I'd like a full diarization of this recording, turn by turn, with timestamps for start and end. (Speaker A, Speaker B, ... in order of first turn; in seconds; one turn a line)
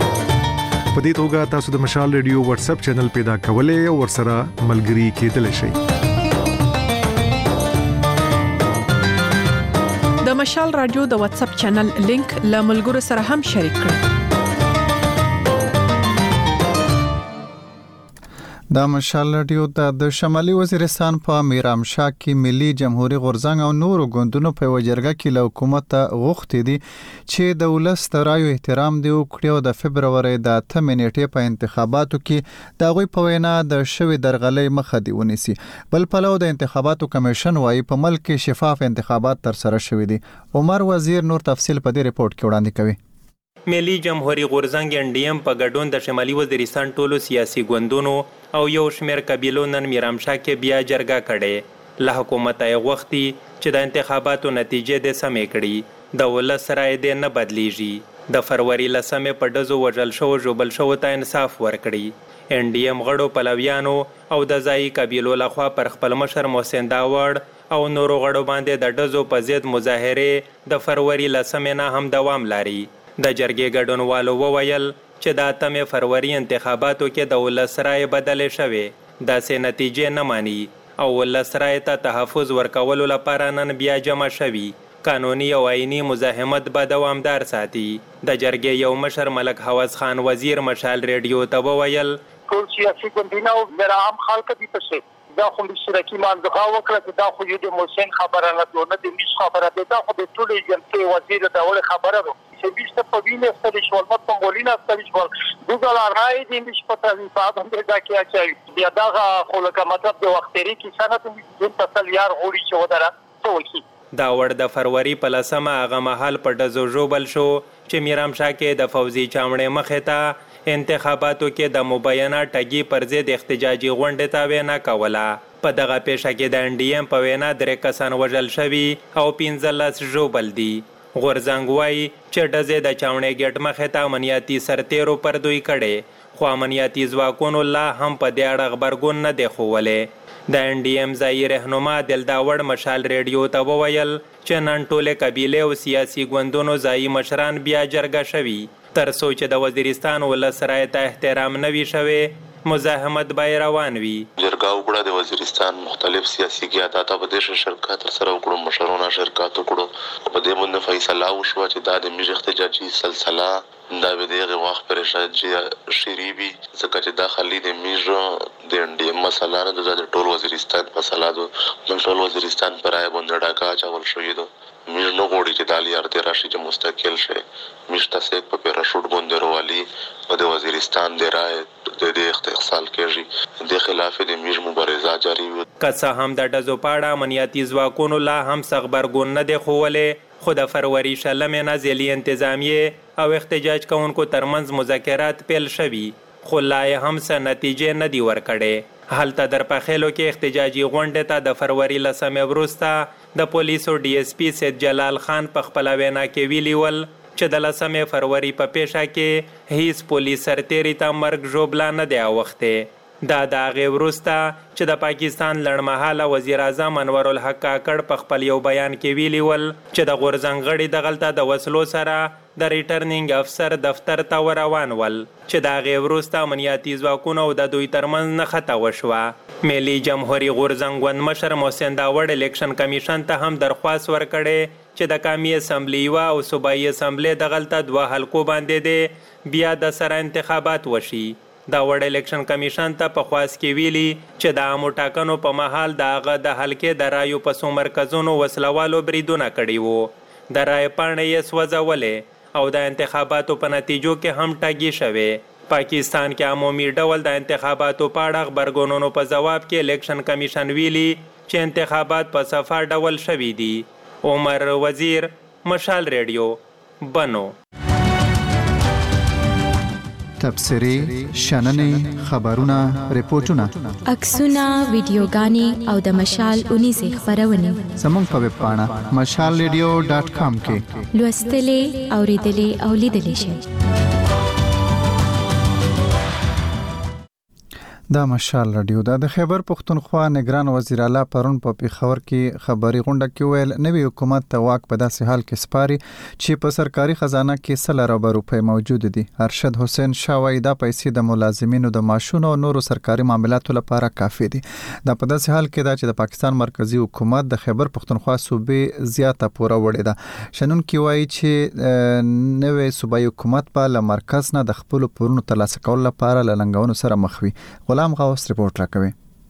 Speaker A: 0.9-5.7
Speaker B: 10.2-14.0
Speaker C: 18.7-43.0
Speaker D: 43.7-92.1
Speaker E: 92.5-113.8
Speaker D: 114.2-154.3
Speaker F: 154.4-185.7
Speaker D: 185.8-267.5
Speaker C: 270.4-273.9
Speaker G: 274.1-277.9
Speaker C: 278.0-281.1
Speaker G: 281.1-283.6
Speaker C: 288.1-319.1